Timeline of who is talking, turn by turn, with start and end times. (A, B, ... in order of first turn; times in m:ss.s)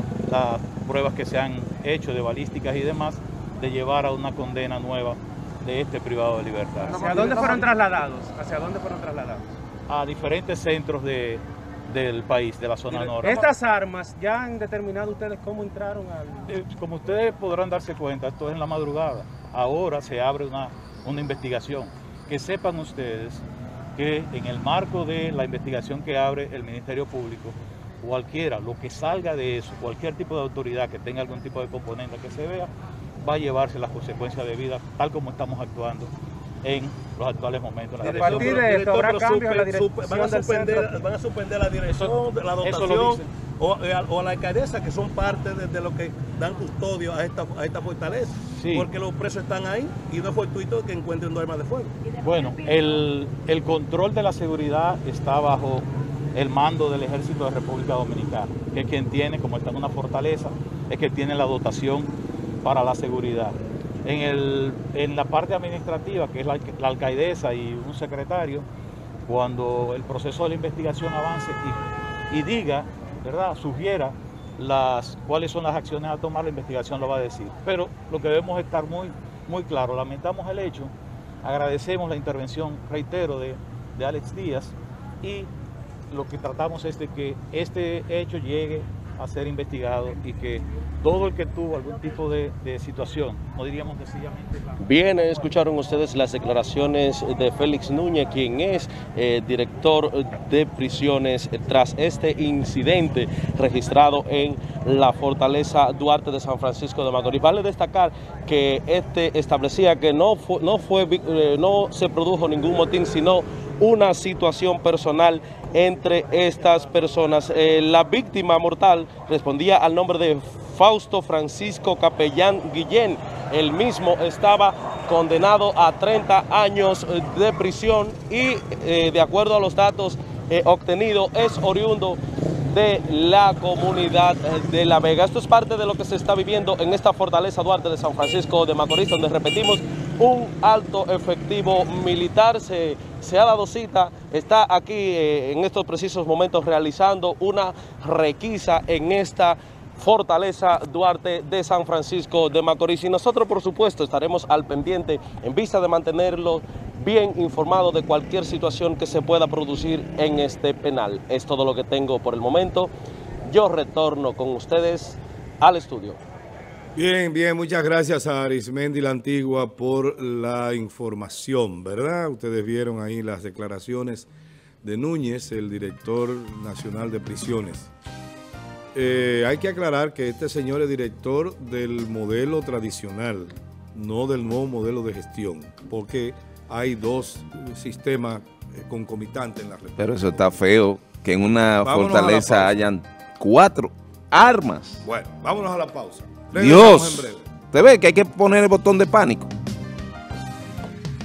0:00.3-0:07.5 A
0:06.8-0:09.4 B
0:09.9-0:13.5 A
0:12.9-0:16.5 B
0:16.5-0:23.4 A
0:24.0-0:32.7 A
0:33.2-0:36.1 A
0:36.6-0:38.5 A
0:38.0-0:52.0 C
0:38.2-0:41.0 B
0:41.9-0:43.3 A
0:48.6-0:48.9 A
0:52.2-1:02.1 A
1:02.6-1:08.6 A
1:09.2-1:11.8 A
1:12.3-1:25.5 A
1:26.1-1:34.7 A
1:34.8-2:42.9 D
2:43.4-2:46.2 D
2:46.9-2:54.3 E
2:54.8-2:57.9 E
2:58.9-3:10.6 E
3:10.0-3:15.0 F
3:11.8-3:12.8 E
3:15.0-3:17.4 E
3:16.5-3:19.5 F